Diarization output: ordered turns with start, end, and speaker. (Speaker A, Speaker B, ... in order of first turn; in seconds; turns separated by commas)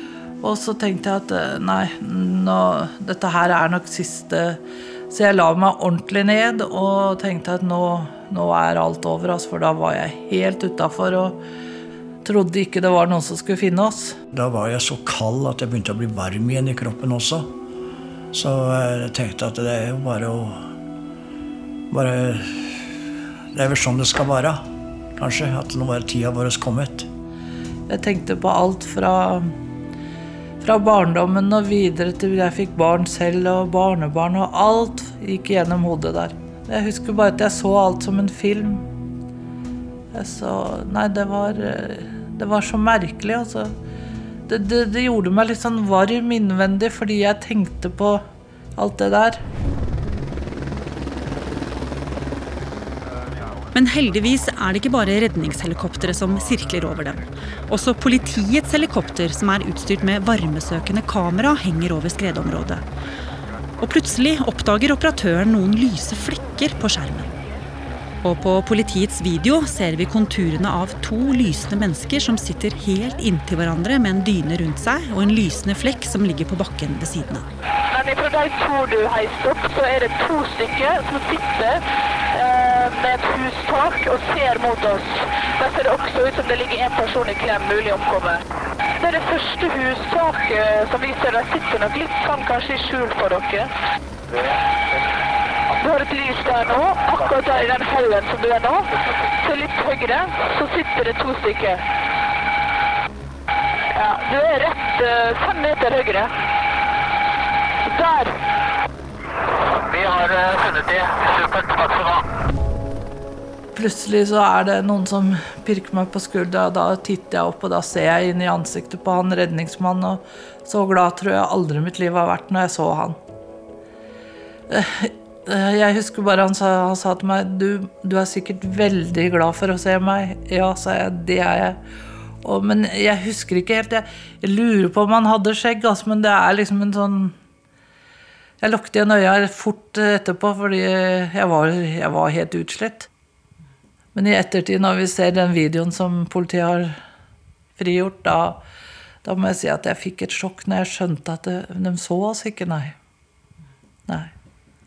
Speaker A: 0.4-11.4, Speaker A: 12.2-14.2, Speaker B: 14.3-17.5, Speaker B: 18.3-20.6, Speaker B: 21.9-22.9, Speaker B: 23.5-24.6, Speaker B: 25.1-27.1, Speaker A: 27.9-29.5, Speaker A: 30.6-38.9, Speaker A: 40.1-43.7, Speaker A: 44.5-48.2, Speaker A: 48.8-49.4, Speaker C: 53.7-62.8, Speaker C: 63.8-67.3, Speaker C: 68.2-77.5, Speaker D: 77.9-81.8, Speaker D: 82.3-88.4, Speaker D: 89.0-93.7, Speaker D: 95.8-101.8, Speaker D: 103.9-106.3, Speaker D: 107.9-108.3, Speaker E: 109.8-112.2, Speaker A: 113.7-123.2, Speaker A: 124.7-131.8, Speaker A: 132.4-137.3, Speaker A: 138.6-143.1, Speaker A: 144.1-147.0, Speaker A: 147.8-148.6, Speaker A: 149.2-153.0